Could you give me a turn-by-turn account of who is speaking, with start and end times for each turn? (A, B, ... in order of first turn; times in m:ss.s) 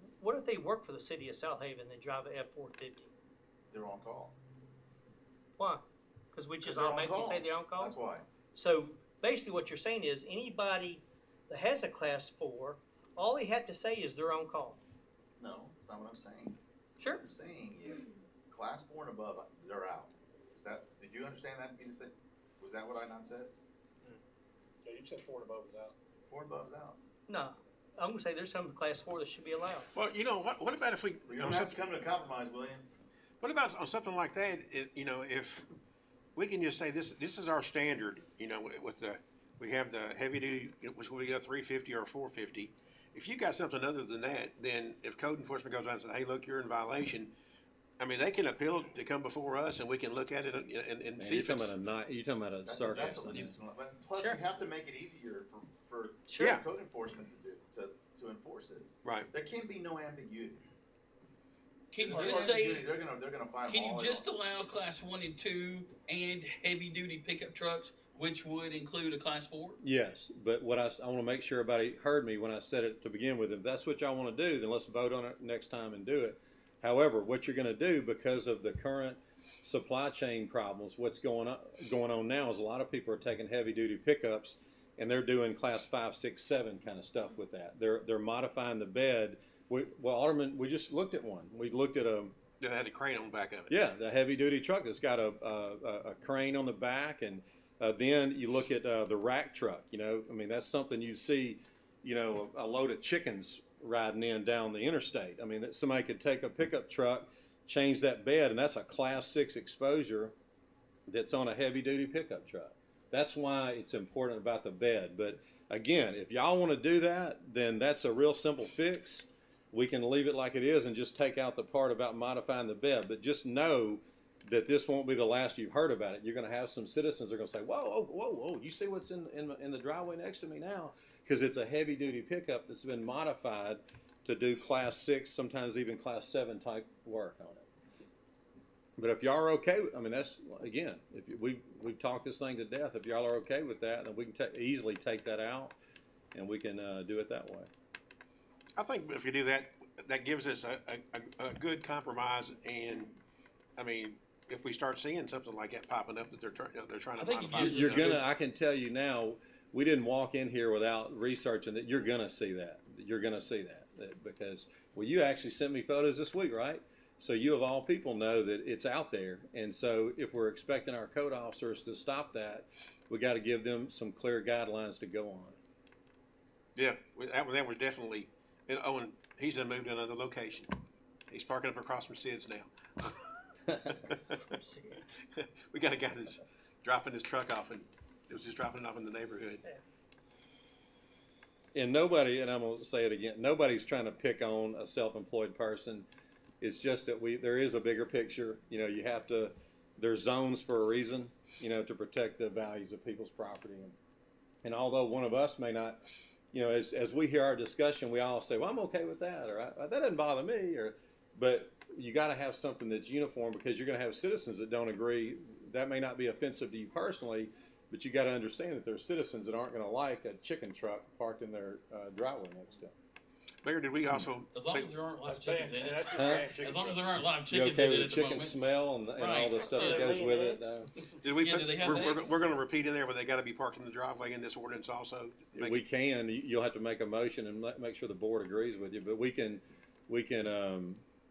0:00.2-0:03.1 A
0:03.7-0:04.4 B
0:05.6-0:08.0 A
0:06.6-0:08.2 B
0:08.5-0:14.8 A
0:15.4-0:23.5 B
0:24.8-0:25.9 C
0:26.3-0:27.0 B
0:27.3-0:29.9 A
0:29.9-0:31.8 D
0:31.3-0:32.9 B
0:33.4-0:35.7 D
0:36.4-0:47.3 D
0:48.0-0:51.7 D
0:51.2-0:53.5 E
0:52.6-1:00.6 B
0:56.3-0:56.5 A
0:59.0-0:59.3 D
1:01.9-1:02.9 F
1:02.0-1:04.3 B
1:03.7-1:09.8 F
1:09.8-1:32.4 E
1:32.6-1:33.7 D
1:33.7-1:50.3 E
1:51.1-2:17.7 E
2:19.0-2:25.8 E
2:26.3-2:27.7 E
2:28.8-2:33.1 D
2:33.8-2:38.2 D
2:37.2-2:38.2 F
2:37.6-2:55.6 E
2:56.8-3:00.7 D
3:01.3-3:04.6 D
3:04.4-3:05.2 A
3:05.3-3:09.6 D
3:11.7-3:16.1 E
3:16.6-3:23.9 E
3:24.6-3:26.0 E
3:26.5-3:42.9 E
3:43.6-3:44.9 D
3:44.5-3:48.6 F
3:45.2-3:47.3 C
3:46.1-3:46.5 E
3:47.5-3:50.9 E
3:49.1-3:50.1 F
3:49.9-3:50.2 A
3:51.2-3:55.8 D
3:51.3-3:52.4 F
3:55.6-4:01.0 E